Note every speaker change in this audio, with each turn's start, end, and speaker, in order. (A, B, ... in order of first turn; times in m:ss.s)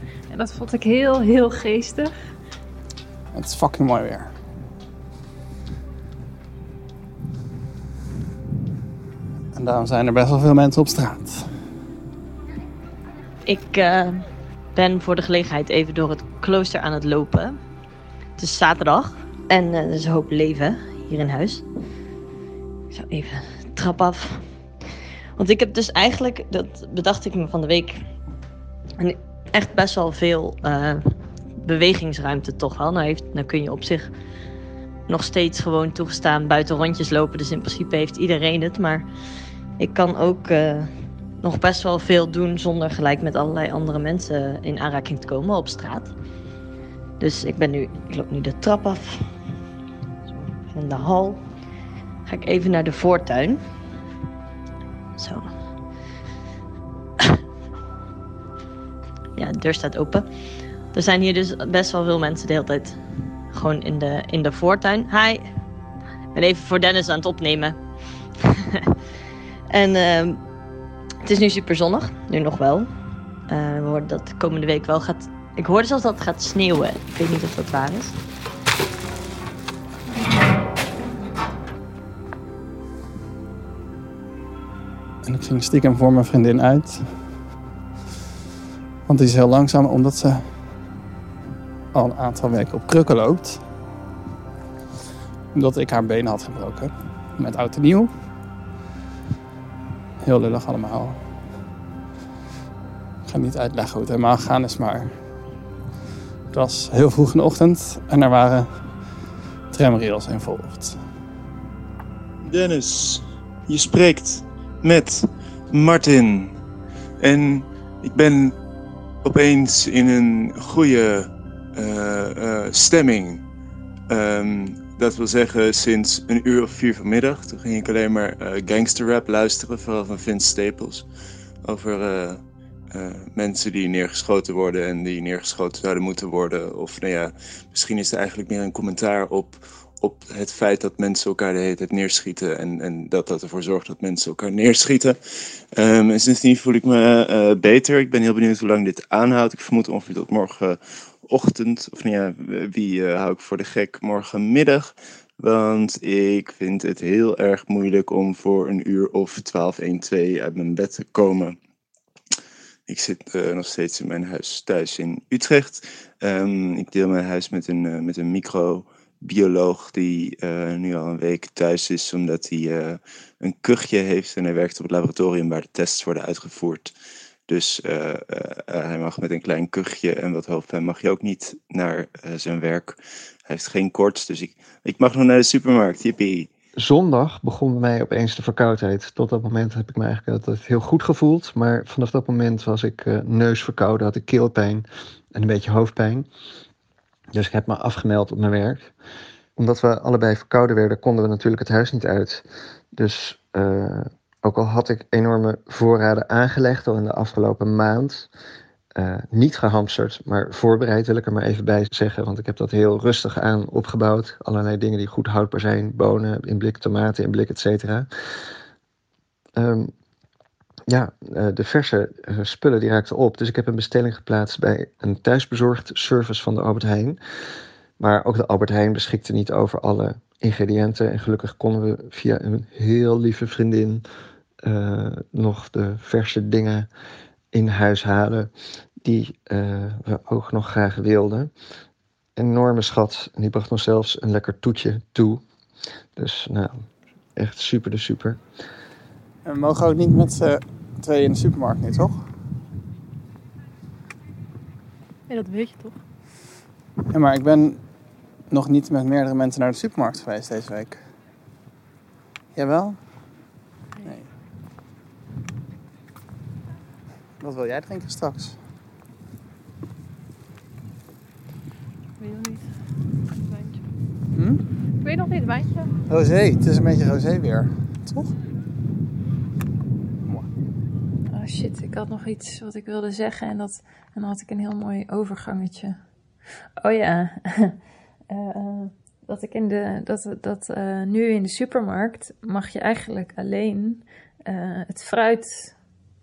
0:00.3-0:02.1 A
0:03.3-0:04.3 B
0:09.5-0:11.7 B
0:13.4-0:17.6 C
0:18.4-0:21.6 C
0:22.9-0:24.5 C
0:25.4-0:28.0 C
0:29.0-0:34.1 C
0:35.1-0:39.0 C
0:39.8-0:46.1 C
0:47.2-0:49.3 C
0:50.3-0:51.4 C
0:52.2-0:53.6 C
0:55.2-0:55.5 C
0:59.4-1:00.2 C
1:00.9-1:05.4 C
1:06.3-1:07.8 C
1:08.4-1:08.9 C
1:09.7-1:10.4 C
1:11.2-1:12.9 C
1:13.5-1:18.2 C
1:25.2-1:27.4 B
1:29.0-1:30.7 B
1:31.9-1:33.6 B
1:35.5-1:38.1 B
1:40.2-1:41.2 B
1:43.2-1:45.3 B
1:46.5-1:49.1 B
1:49.7-1:51.1 B
1:52.4-1:56.6 D
1:57.2-1:58.5 D
1:59.2-2:03.4 D
2:04.1-2:11.0 D
2:11.6-2:41.6 D
2:42.9-2:56.9 D
2:57.5-3:06.5 D
3:06.8-3:16.3 E
3:17.3-3:18.9 E
3:19.6-3:28.3 E
3:28.9-3:38.1 E
3:39.6-3:39.9 E
3:40.9-3:47.2 E
3:48.0-3:54.0 E
3:54.6-3:56.9 E
3:57.5-3:58.5 E
3:59.0-4:01.5 E
4:02.4-4:05.4 E
4:06.2-4:08.4 E
4:09.4-4:12.3 B
4:15.3-4:15.9 F
4:17.1-4:17.8 B
4:18.5-4:21.0 B
4:22.5-4:23.3 B
4:24.0-4:24.3 B
4:27.4-4:28.6 B
4:32.2-4:32.6 F
4:33.5-4:33.8 F
4:34.3-4:34.6 B
4:35.1-4:35.9 F
4:36.1-4:38.3 B
4:41.3-4:46.0 A
4:46.8-4:47.8 A
4:48.3-4:55.8 A